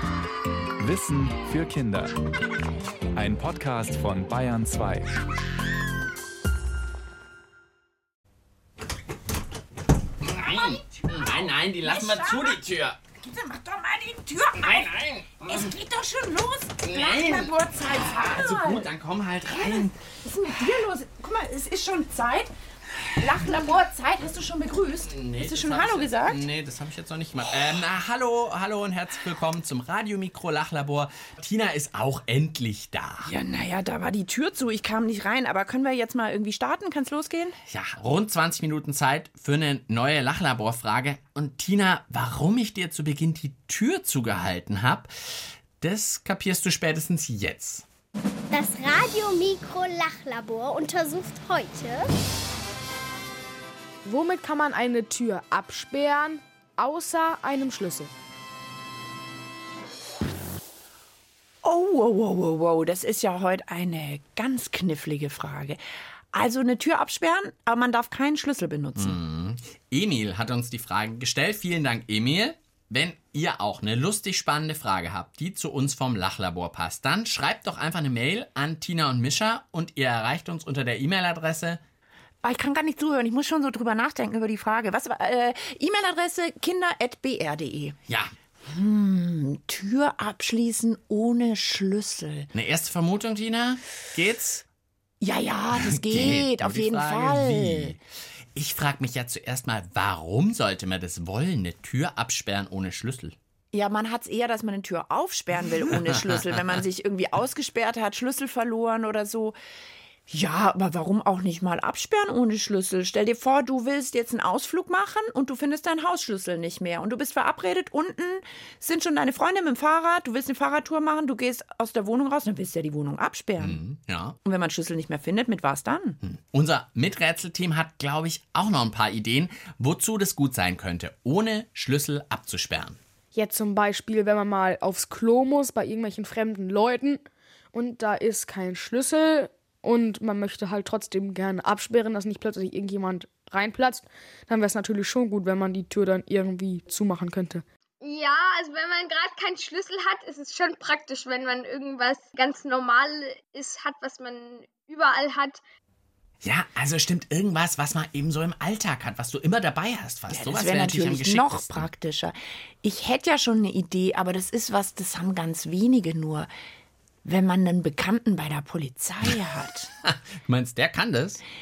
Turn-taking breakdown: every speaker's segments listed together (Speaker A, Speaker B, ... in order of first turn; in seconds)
Speaker A: 0.8-2.2, 3.1-5.2
Speaker B: 10.2-13.0, 14.6-15.7, 16.8-20.0, 25.1-33.3, 37.7-47.9, 69.0-81.8, 92.5-94.7, 95.7-98.0, 98.5-103.4, 106.1-106.4, 123.6-124.4, 126.2-133.0, 156.4-161.9, 170.0-171.4
Speaker C: 10.4-11.3, 11.8-12.6, 13.2-18.9, 19.5-22.5, 23.2-26.4, 33.2-37.6, 61.6-65.8, 66.3-69.2, 82.4-88.0, 88.7-92.5, 95.2-98.0, 103.7-109.6, 110.3-123.8, 124.5-126.2, 160.3-166.5, 167.2-169.9
Speaker D: 48.5-52.1
Speaker E: 54.0-58.1, 133.3-147.6
Speaker F: 148.0-155.6